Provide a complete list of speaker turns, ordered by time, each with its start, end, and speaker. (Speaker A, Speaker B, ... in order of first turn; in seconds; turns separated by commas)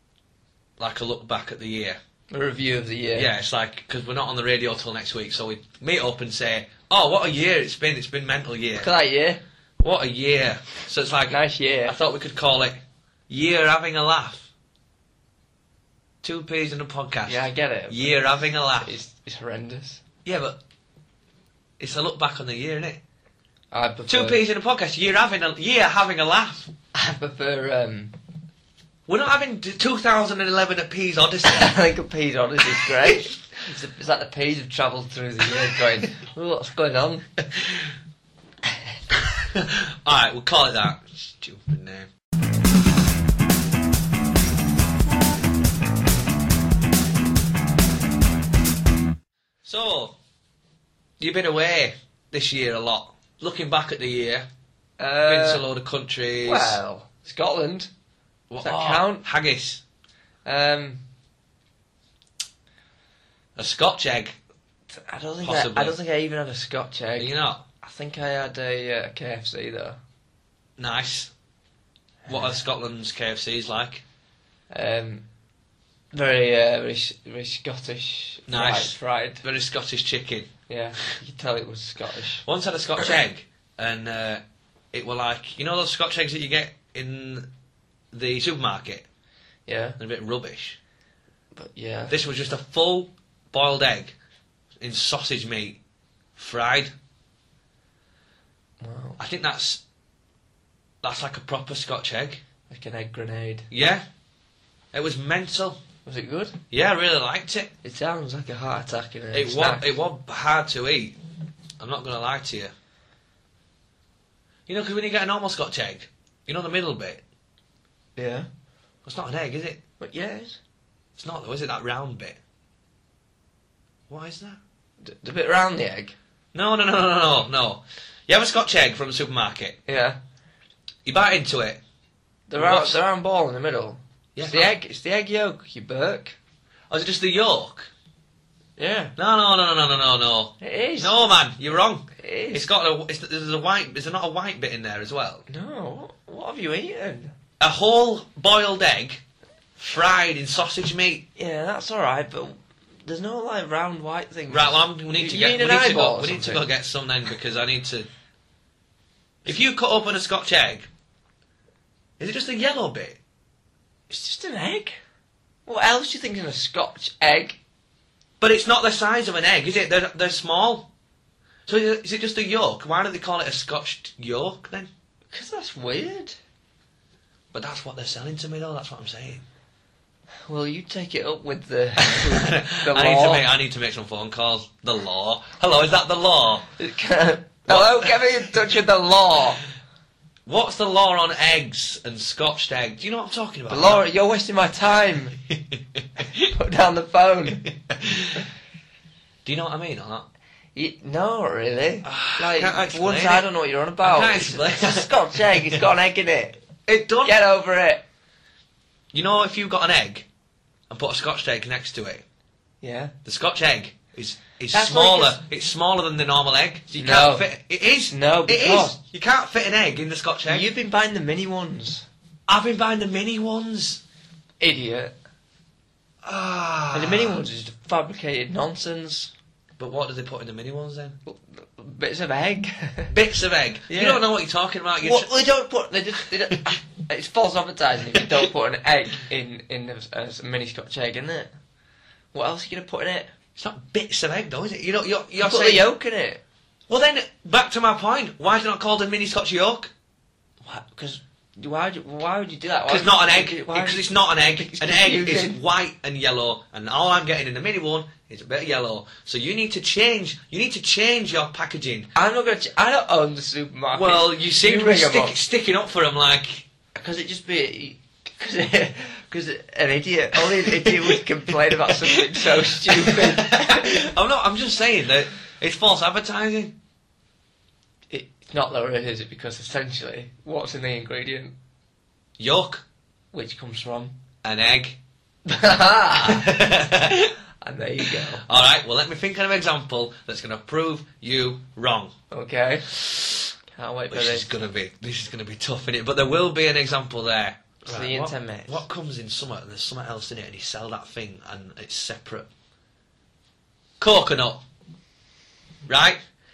Speaker A: 0.8-2.0, Speaker B: 2.3-3.3, Speaker A: 3.1-8.9, Speaker B: 8.8-9.4, Speaker A: 9.8-14.5, Speaker B: 11.3-11.9, Speaker A: 16.2-18.9, Speaker B: 17.3-20.0, Speaker A: 20.2-20.6, Speaker A: 21.8-23.0, Speaker B: 23.7-24.4, Speaker A: 24.1-26.7, Speaker B: 26.9-28.1, Speaker A: 29.1-31.7, Speaker B: 31.4-37.3, Speaker A: 32.7-33.2, Speaker A: 37.5-37.8, Speaker A: 39.5-42.1, Speaker A: 49.6-50.2, Speaker A: 51.2-54.5, Speaker B: 55.0-55.7, Speaker A: 55.2-56.8, Speaker B: 56.4-57.9, Speaker A: 58.5-59.8, Speaker B: 58.6-59.2, Speaker B: 60.4-61.0, Speaker A: 63.5-64.3, Speaker B: 64.9-70.0, Speaker A: 65.4-66.0, Speaker A: 67.2-67.6, Speaker A: 70.8-71.3, Speaker B: 72.2-72.5, Speaker A: 72.3-74.0, Speaker B: 74.7-75.2, Speaker B: 76.1-79.4, Speaker A: 78.5-80.5, Speaker B: 80.7-82.4, Speaker A: 82.4-84.4, Speaker A: 84.9-87.5, Speaker A: 88.1-89.0, Speaker B: 89.7-90.0, Speaker A: 90.0-90.8, Speaker B: 91.5-92.1, Speaker A: 92.1-94.1, Speaker A: 94.8-95.8, Speaker A: 96.4-96.9, Speaker B: 98.8-99.2, Speaker A: 99.2-99.8, Speaker A: 101.0-102.4, Speaker B: 102.7-103.7, Speaker A: 103.7-104.0, Speaker A: 104.9-105.8, Speaker B: 106.0-106.6, Speaker A: 106.7-107.7, Speaker B: 107.8-110.0, Speaker A: 109.3-111.2, Speaker A: 111.8-112.7, Speaker A: 114.7-117.2, Speaker B: 118.2-118.5, Speaker A: 119.0-119.8, Speaker B: 120.0-120.6, Speaker A: 121.2-122.4, Speaker A: 124.1-124.6, Speaker B: 125.0-126.1, Speaker A: 126.5-129.8, Speaker B: 129.8-130.2, Speaker A: 131.1-131.8, Speaker B: 132.5-136.3, Speaker A: 132.6-133.0, Speaker A: 134.3-134.7, Speaker A: 136.9-137.9, Speaker B: 138.8-139.1, Speaker A: 139.2-145.4, Speaker B: 140.6-141.2, Speaker B: 142.2-142.7, Speaker B: 145.5-147.3, Speaker A: 147.6-149.2, Speaker A: 149.8-151.2, Speaker B: 151.3-156.7, Speaker A: 154.5-158.1, Speaker A: 159.4-160.9, Speaker A: 162.2-163.2, Speaker B: 164.1-165.0, Speaker B: 165.7-167.6, Speaker A: 168.4-170.9, Speaker A: 171.7-174.9, Speaker B: 175.3-176.4, Speaker A: 177.5-179.4, Speaker B: 180.5-183.5, Speaker A: 182.0-186.7, Speaker B: 186.8-189.6, Speaker A: 187.7-188.2, Speaker A: 190.4-194.0, Speaker B: 193.7-195.4, Speaker B: 196.5-197.7, Speaker A: 197.9-198.4, Speaker A: 199.4-200.3, Speaker B: 200.7-206.6, Speaker A: 202.0-203.4, Speaker A: 204.0-205.8, Speaker A: 206.9-207.3, Speaker B: 207.2-208.0, Speaker A: 209.1-210.2, Speaker A: 210.9-212.2, Speaker B: 212.8-213.1, Speaker A: 213.2-220.6, Speaker B: 214.7-215.4, Speaker B: 217.0-217.5, Speaker B: 218.1-219.0, Speaker B: 220.4-222.1, Speaker A: 222.5-224.0, Speaker B: 224.6-225.1, Speaker A: 226.2-227.4, Speaker B: 226.9-229.3, Speaker A: 229.8-231.2, Speaker B: 231.2-233.1, Speaker A: 233.1-235.3, Speaker B: 233.9-234.2, Speaker B: 235.0-241.5, Speaker B: 242.3-243.3, Speaker A: 243.6-245.8, Speaker B: 245.4-246.4, Speaker A: 246.9-249.9, Speaker B: 250.6-255.6, Speaker A: 252.9-262.1, Speaker B: 262.1-265.4, Speaker A: 263.9-266.6, Speaker B: 266.9-274.0, Speaker A: 270.6-271.2, Speaker A: 271.8-272.2, Speaker A: 272.7-276.7, Speaker B: 278.1-281.5, Speaker A: 282.4-282.8, Speaker B: 283.3-284.2, Speaker A: 284.4-285.0, Speaker B: 285.4-286.8, Speaker A: 286.1-287.3, Speaker B: 287.6-288.4, Speaker A: 288.4-292.1, Speaker B: 292.3-294.5, Speaker A: 294.1-302.5, Speaker B: 297.9-298.8, Speaker A: 304.0-304.6, Speaker A: 305.9-306.2